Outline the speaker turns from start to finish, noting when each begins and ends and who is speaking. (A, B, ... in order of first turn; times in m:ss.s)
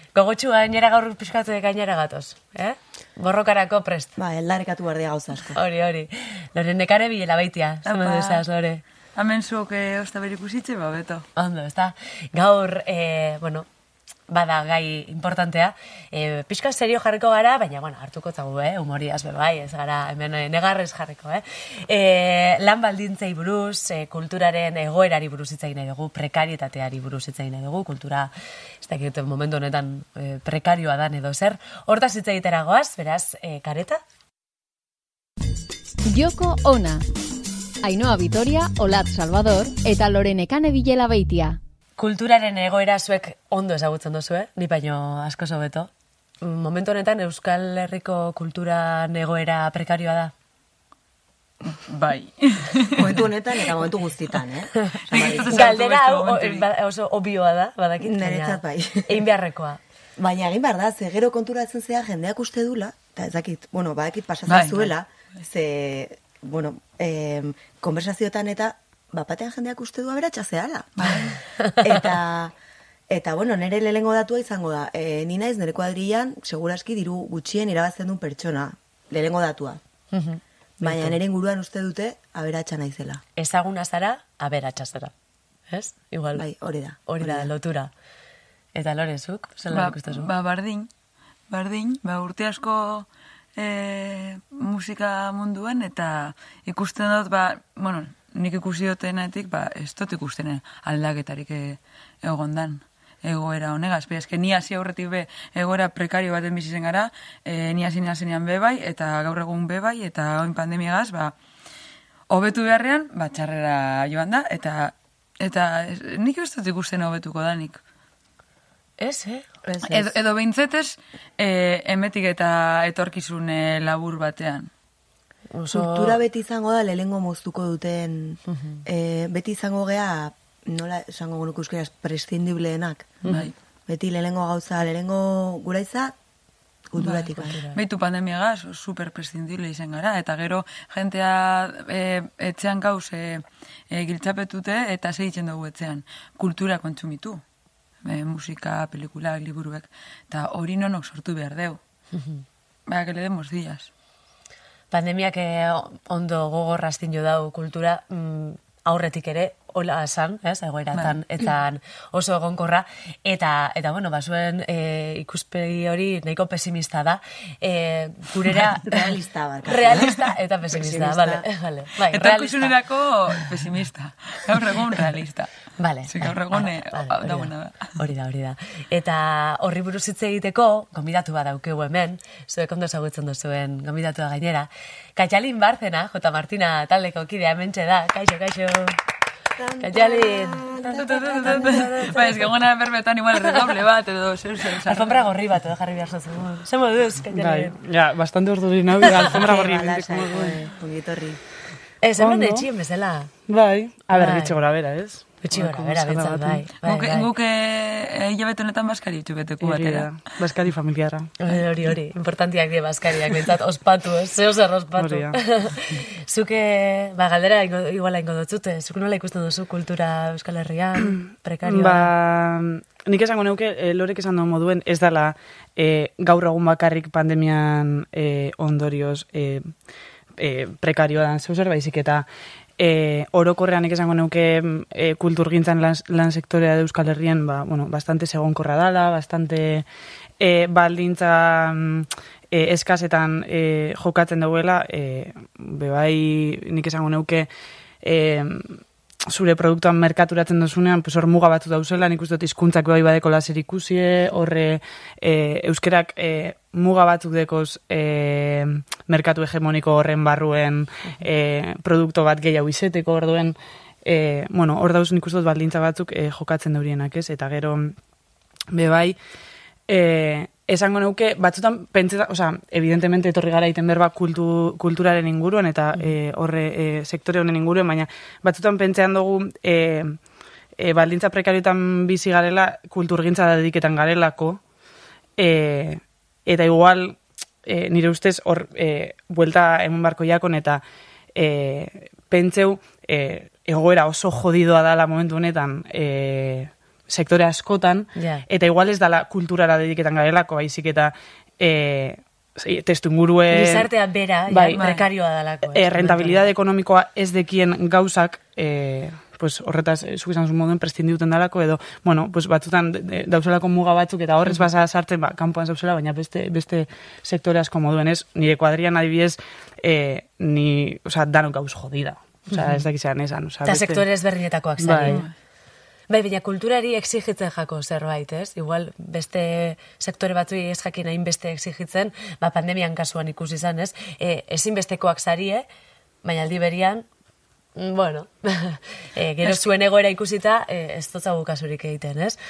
0:00.1-0:04.1 A
0:04.2-0:05.6 B
0:05.5-0:08.8 A
0:07.8-0:08.4 C
0:09.2-0:11.3 C
0:11.4-0:13.6 A
0:14.3-0:28.3 A
0:28.8-0:34.0 A
0:36.0-0:37.0 D
0:37.8-0:41.6 D
0:42.0-0:50.3 A
0:51.7-0:53.3 C
0:52.9-0:55.8 B
0:55.1-0:56.6 C
0:55.5-0:59.8 A
0:58.0-0:59.2 B
1:00.2-1:12.5 B
1:04.5-1:04.9 C
1:11.0-1:11.4 C
1:13.1-1:19.8 B
1:20.1-1:21.2 A
1:20.8-1:23.2 B
1:23.4-1:25.1 A
1:25.7-1:26.5 A
1:26.4-1:27.5 B
1:27.0-1:27.9 A
1:28.7-1:30.3 A
1:29.7-1:30.9 C
1:31.5-1:51.3 C
1:52.3-1:57.8 C
1:59.0-1:59.4 A
1:59.6-2:00.1 B
1:59.8-2:04.7 C
2:05.5-2:06.2 A
2:05.7-2:16.1 B
2:08.5-2:08.8 A
2:13.2-2:13.5 A
2:13.3-2:13.5 C
2:16.9-2:17.6 B
2:17.0-2:17.8 A
2:17.1-2:27.4 C
2:28.0-2:31.8 C
2:32.1-2:32.4 A
2:32.9-2:33.9 C
2:34.9-2:49.0 A
2:48.7-2:51.4 B
2:49.6-2:52.8 A
2:52.1-2:55.5 C
2:55.8-3:08.9 A
2:56.1-2:57.9 C
3:09.6-3:11.9 B
3:09.8-3:12.4 A
3:11.0-3:15.2 C
3:14.8-3:17.7 A
3:17.3-3:20.7 E
3:19.2-3:21.4 B
3:22.0-3:23.3 A
3:22.2-3:22.7 E
3:23.5-3:26.6 E
3:24.1-3:24.6 A
3:25.4-3:27.3 A
3:26.8-3:30.2 C
3:29.6-3:31.3 E
3:31.4-3:42.1 A
3:35.0-3:35.4 E
3:41.6-3:49.7 E
3:50.4-3:52.2 E
3:52.8-3:59.8 E
4:00.4-4:07.5 E
4:08.0-4:28.0 E
4:28.7-4:29.2 E
4:29.9-4:40.2 E
4:40.8-4:44.6 E
4:45.4-4:50.8 E
4:51.3-5:03.9 E
4:58.1-4:58.4 A
5:03.5-5:06.5 A
5:04.5-5:04.8 E
5:04.7-5:05.0 C
5:05.7-5:24.0 E
5:23.6-5:25.2 A
5:24.8-5:25.2 E
5:25.0-5:25.3 C
5:26.1-5:35.6 A
5:36.2-5:37.0 A
5:37.8-5:42.4 A